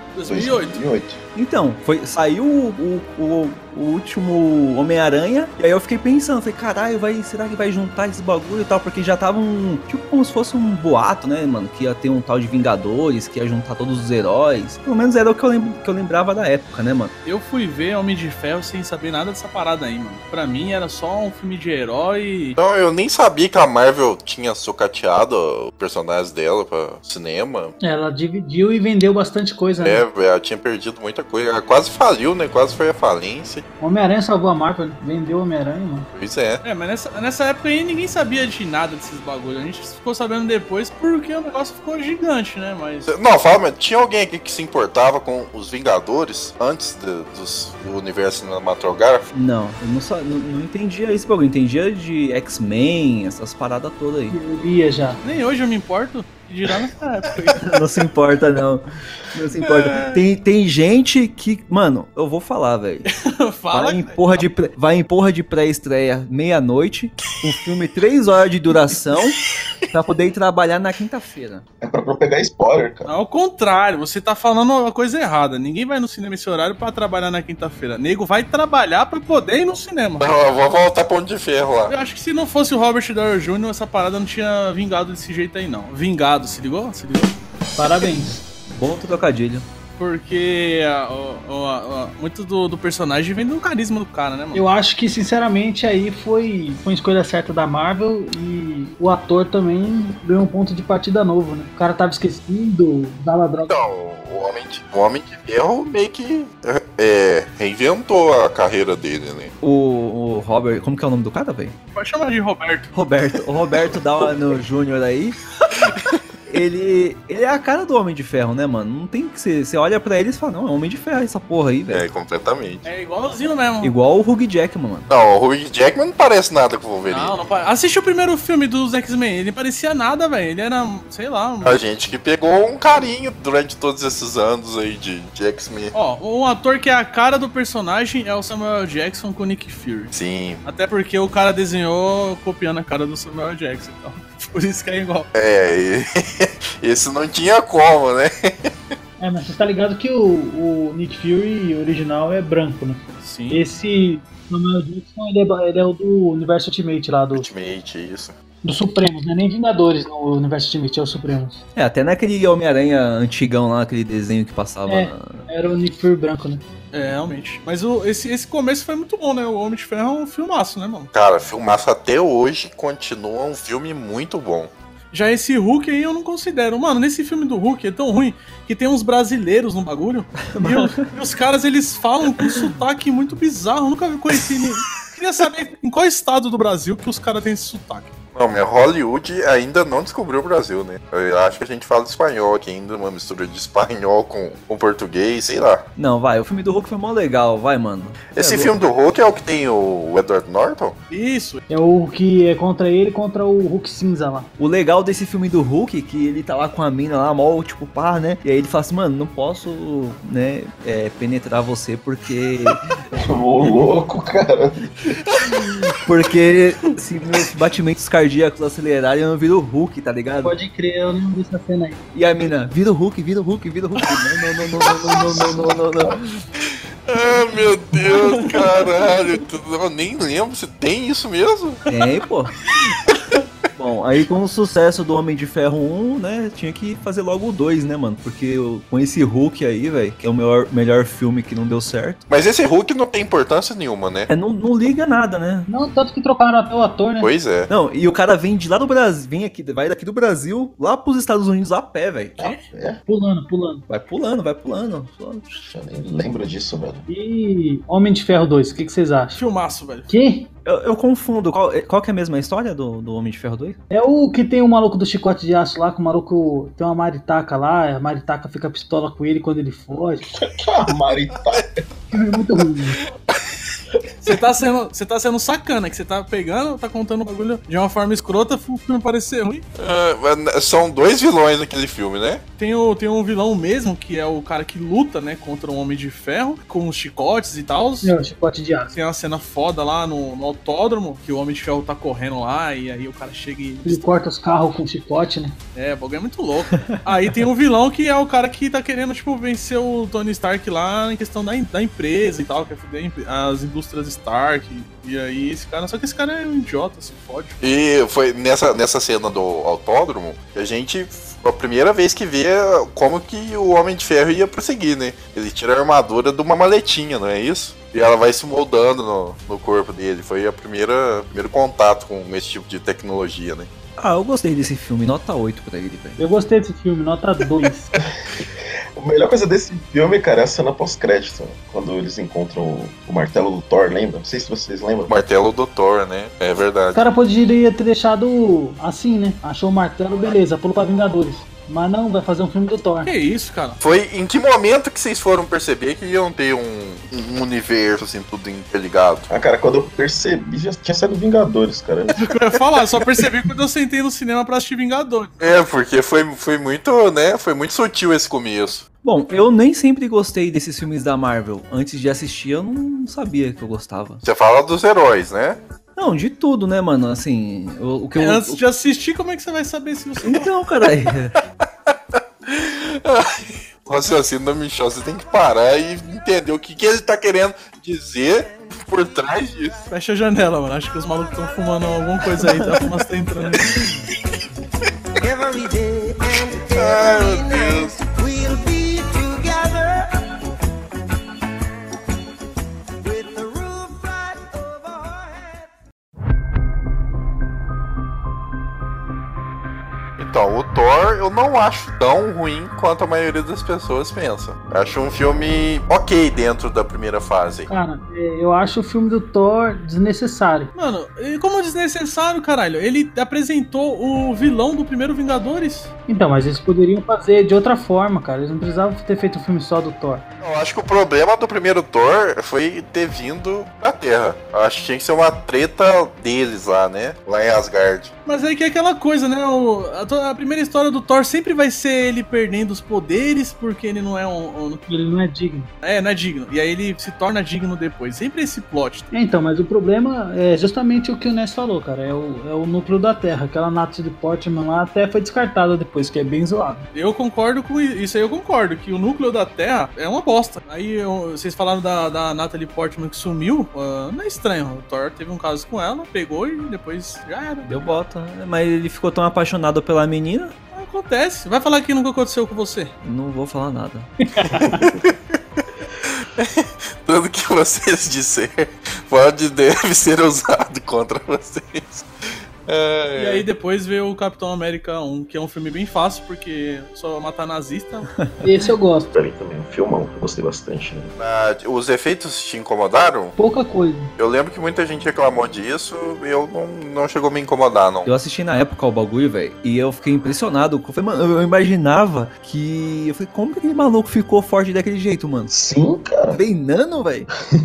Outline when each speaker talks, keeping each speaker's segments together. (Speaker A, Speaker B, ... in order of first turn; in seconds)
Speaker A: 0.1-0.8, 17.2-22.6, 36.6-43.1, 55.2-57.7, 63.2-64.4, 73.0-80.3, 81.9-87.4, 90.0-94.6, 111.9-112.9, 122.8-123.9, 127.1-131.8, 135.9-140.1, 140.6-145.3, 153.2-153.6, 166.9-171.1, 175.1-188.1, 201.1-201.6, 228.0-228.8, 259.3-260.1, 274.2-279.6, 282.6-288.1, 288.9-294.1, 295.7-307.6, 343.0-343.8, 352.1-355.3, 368.2-370.5, 379.9-383.8, 410.7-415.9, 428.2-434.8, 435.8-439.1, 446.9-458.0, 460.7-462.9, 473.1-478.1
Speaker B: 0.2-1.2, 71.8-73.1, 213.1-215.2, 252.4-253.0, 255.6-257.1, 270.4-271.8, 329.0-335.2, 349.3-352.2, 479.1-481.1, 495.5-496.4
Speaker C: 1.3-17.1, 49.3-54.4, 57.6-63.1, 63.7-71.6, 88.7-89.7, 109.6-111.8, 112.9-115.4, 116.5-122.0, 123.8-125.1, 161.8-165.4, 180.5-181.1, 196.0-198.8, 204.6-212.9, 216.0-220.5, 222.1-226.5, 231.9-232.5, 233.8-242.2, 244.3-245.7, 247.7-252.4, 253.9-255.6, 260.6-263.8, 324.0-326.2, 359.0-364.2, 365.9-368.6, 370.2-371.3, 382.4-384.0, 457.6-460.5, 463.0-464.6, 478.2-478.4, 488.0-495.5, 496.3-497.3
Speaker D: 22.6-27.7, 29.8-33.6, 36.1-36.6, 43.1-49.3, 80.2-82.0, 103.7-109.5, 121.9-122.8, 125.1-127.3, 131.6-135.9, 140.1-140.6, 145.3-148.7, 157.3-158.3, 171.1-174.7, 188.3-195.8, 198.3-201.0, 226.7-231.8, 242.3-244.3, 247.2-247.7, 279.8-282.4, 307.6-323.7, 335.1-337.0, 343.8-349.3, 355.4-358.9, 364.2-365.6, 371.9-379.8, 386.7-388.0, 400.2-407.7, 420.4-428.1, 464.9-465.4, 466.0-472.1, 472.6-473.4, 481.2-483.3, 484.2-488.1
Speaker E: 27.8-30.0, 33.8-36.1, 54.3-55.2, 87.8-88.4, 94.5-103.8, 149.2-157.5, 158.6-161.6, 164.9-166.6, 201.7-204.5, 220.4-222.0, 245.7-247.3, 253.1-253.8, 257.1-259.4, 260.1-260.5, 263.9-270.2, 272.1-273.0, 288.0-288.9, 293.8-295.5, 326.2-327.9, 336.9-343.1, 407.7-410.7, 416.1-420.2, 434.9-435.7, 439.1-446.8, 464.3-464.9, 478.4-479.1, 483.4-484.1
Speaker F: 385.2-390.1, 393.0-395.7